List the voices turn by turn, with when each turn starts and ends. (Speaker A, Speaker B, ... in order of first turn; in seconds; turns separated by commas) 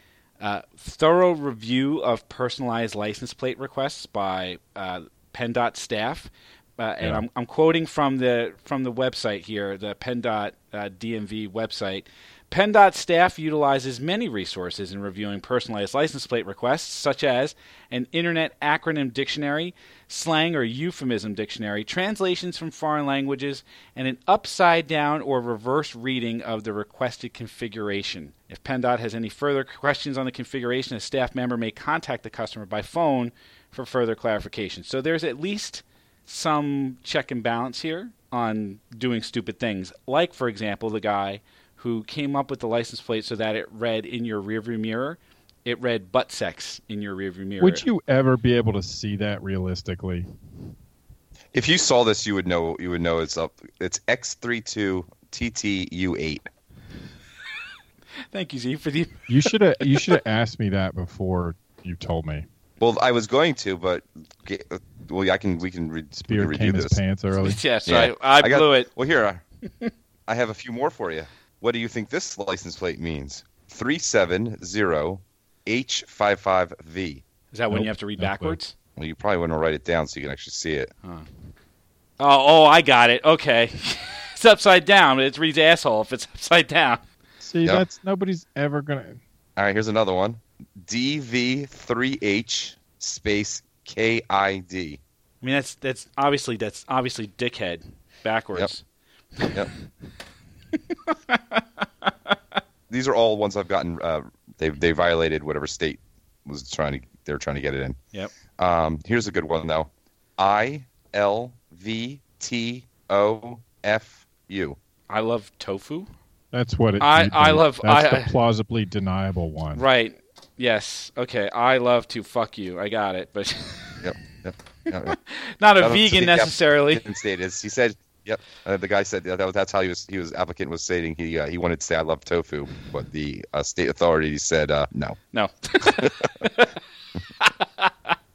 Speaker A: 0.4-47.9, Speaker B: 47.6-50.3, Speaker C: 51.5-56.5, Speaker A: 58.3-60.2, Speaker B: 59.3-62.5, Speaker C: 62.8-67.0, Speaker B: 66.1-67.6, Speaker A: 67.3-68.9, Speaker C: 67.8-69.4, Speaker C: 70.3-77.2, Speaker A: 77.5-78.7, Speaker B: 77.7-78.6, Speaker C: 79.0-80.9, Speaker A: 82.2-87.0, Speaker B: 87.4-89.2, Speaker C: 89.6-95.0, Speaker A: 95.4-98.8, Speaker A: 99.4-99.7, Speaker A: 100.7-102.6, Speaker C: 102.9-108.0, Speaker C: 108.6-114.8, Speaker A: 115.1-116.1, Speaker B: 116.5-119.8, Speaker A: 117.0-118.3, Speaker A: 119.7-124.1, Speaker C: 124.0-125.2, Speaker A: 124.9-127.0, Speaker C: 125.8-135.2, Speaker A: 135.3-136.8, Speaker C: 135.8-136.3, Speaker A: 137.4-138.1